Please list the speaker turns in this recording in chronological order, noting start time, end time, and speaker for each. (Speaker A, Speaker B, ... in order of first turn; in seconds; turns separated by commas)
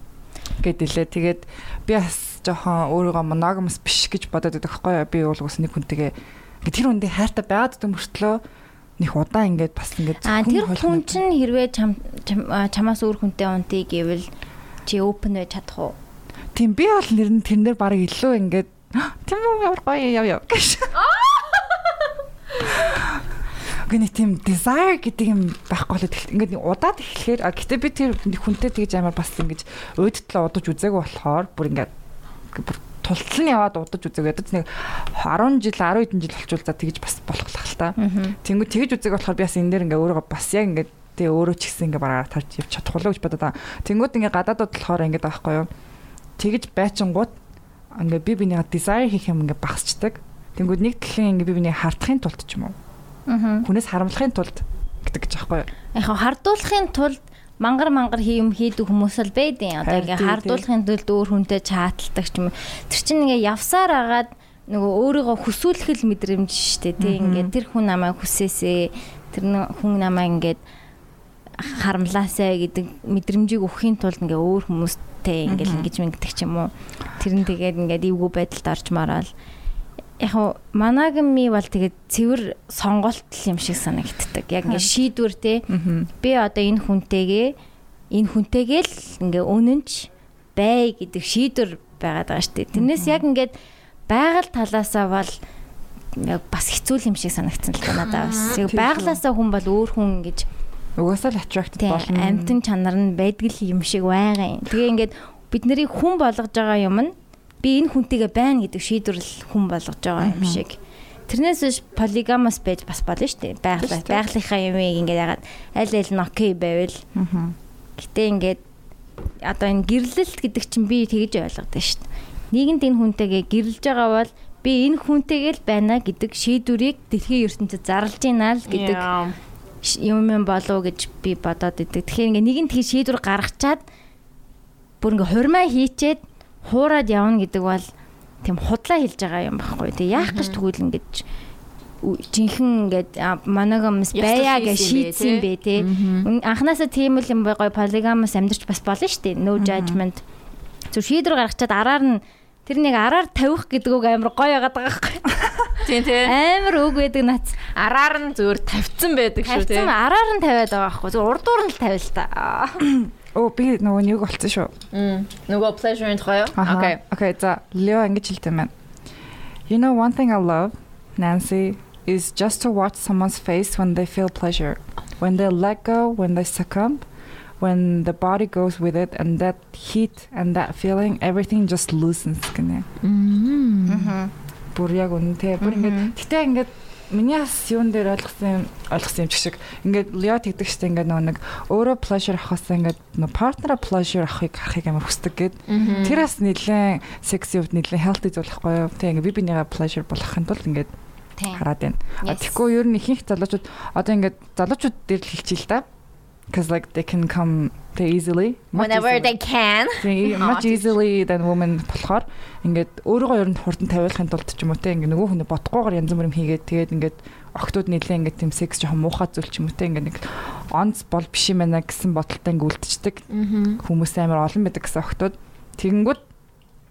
Speaker A: 0.6-8.4, Speaker A: 9.0-11.2, Speaker B: 10.2-14.3, Speaker B: 14.9-16.0, Speaker A: 16.5-21.1, Speaker C: 21.0-21.9, Speaker A: 22.8-23.2, Speaker A: 23.9-31.9, Speaker A: 32.5-45.7, Speaker B: 38.0-38.4, Speaker A: 46.4-47.4, Speaker A: 48.0-52.8, Speaker B: 53.3-53.7, Speaker A: 53.6-55.7, Speaker B: 56.0-70.6, Speaker A: 59.9-60.6, Speaker A: 67.0-67.5, Speaker B: 71.6-79.3, Speaker A: 75.5-75.9, Speaker B: 80.2-85.7, Speaker A: 85.7-86.1, Speaker B: 86.2-87.5, Speaker B: 88.1-93.5, Speaker A: 92.8-93.2, Speaker B: 94.1-95.4, Speaker B: 96.2-100.5, Speaker C: 98.0-98.6, Speaker A: 98.6-99.2, Speaker A: 101.0-102.6, Speaker B: 101.8-117.0, Speaker A: 110.2-110.6, Speaker A: 113.8-114.3, Speaker A: 117.2-117.5, Speaker B: 118.0-118.6, Speaker B: 119.4-129.1, Speaker C: 128.7-129.4, Speaker B: 129.8-133.8, Speaker B: 135.0-137.9, Speaker B: 138.4-141.2, Speaker C: 140.2-140.6, Speaker B: 142.0-150.2, Speaker C: 144.1-146.3, Speaker A: 149.6-150.0, Speaker B: 150.9-157.6, Speaker C: 155.8-156.3, Speaker C: 157.8-159.9, Speaker B: 159.4-162.9, Speaker A: 162.8-164.7, Speaker C: 164.9-167.0, Speaker A: 166.6-168.7, Speaker A: 169.7-177.1, Speaker A: 177.6-182.9, Speaker C: 183.0-184.2, Speaker B: 183.9-184.3, Speaker A: 184.7-200.9, Speaker B: 185.6-186.1, Speaker C: 195.7-196.2, Speaker B: 201.4-201.6, Speaker A: 201.5-205.9, Speaker B: 202.2-202.6, Speaker A: 206.5-209.3, Speaker C: 208.8-211.0, Speaker A: 210.0-223.2, Speaker C: 223.3-223.8, Speaker A: 223.8-226.2